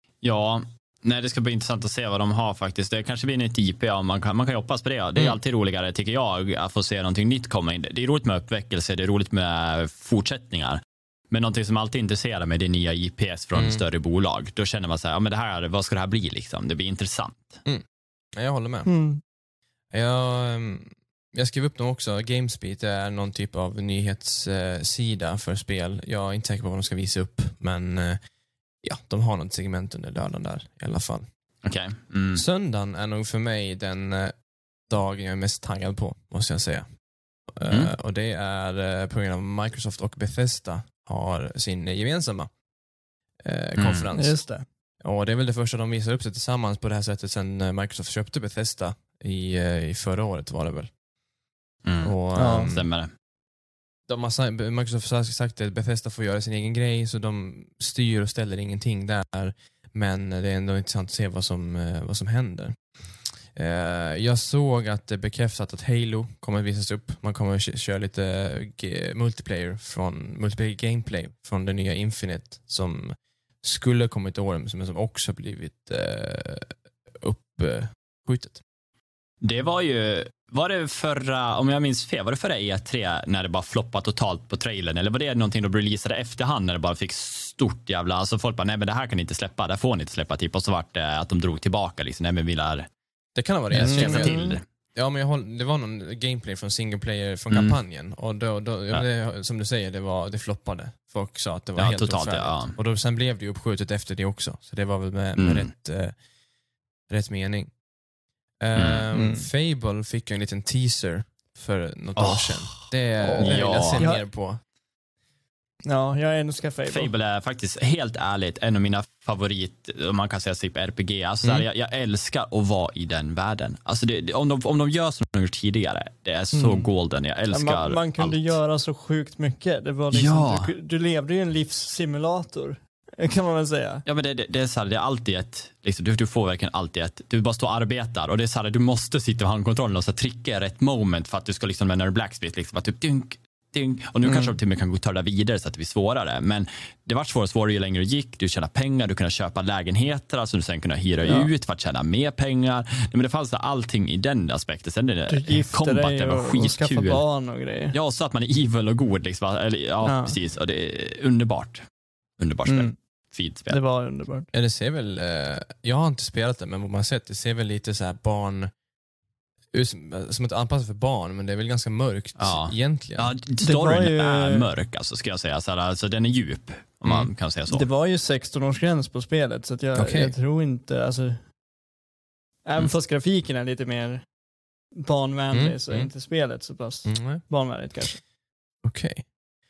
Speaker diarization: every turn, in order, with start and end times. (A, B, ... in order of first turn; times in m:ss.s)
0:00.2-0:17.6 A
0:13.5-0:13.8 B
0:18.4-0:18.9 B
0:18.8-0:19.2 C
0:19.9-0:28.2 B
0:28.8-0:31.2 B
0:31.6-0:32.4 A
0:32.3-0:36.8 B
0:37.5-0:42.5 B
0:43.4-0:44.4 B
0:43.8-0:44.1 A
0:44.2-0:44.6 C
0:45.0-0:50.9 B
0:51.8-0:53.1 A
0:52.0-0:52.9 B
0:52.3-0:52.7 C
0:54.1-1:02.9 B
1:03.5-1:18.6 B
1:19.4-1:32.9 A
1:33.4-1:46.1 B
1:33.7-1:34.6 A
1:33.8-1:34.5 C
1:37.5-1:37.8 A
1:41.8-1:42.8 A
1:45.4-1:45.7 A
1:47.1-1:47.7 B
1:48.6-1:54.6 B
1:48.8-1:49.0 A
1:49.1-1:49.5 C
1:52.2-1:54.1 A
1:53.2-1:54.2 C
1:55.8-1:57.1 C
1:56.8-2:08.6 A
2:06.5-2:06.9 C
2:07.5-2:14.0 C
2:10.1-2:10.7 A
2:14.0-2:37.2 A
2:24.2-2:24.6 C
2:31.2-2:31.5 C
2:35.3-2:37.9 C
2:37.9-2:41.8 A
2:40.0-2:40.4 C
2:42.4-2:43.8 A
2:42.7-2:42.9 C
2:43.7-2:44.5 C
2:44.5-2:48.7 B
2:49.7-2:53.3 B
2:52.4-2:57.8 A
2:53.6-2:54.7 C
2:57.7-3:01.4 C
2:59.9-3:00.3 B
3:02.6-3:04.3 C
3:04.9-3:08.2 C
3:05.5-3:06.1 B
3:07.0-3:07.4 B
3:08.8-3:09.3 B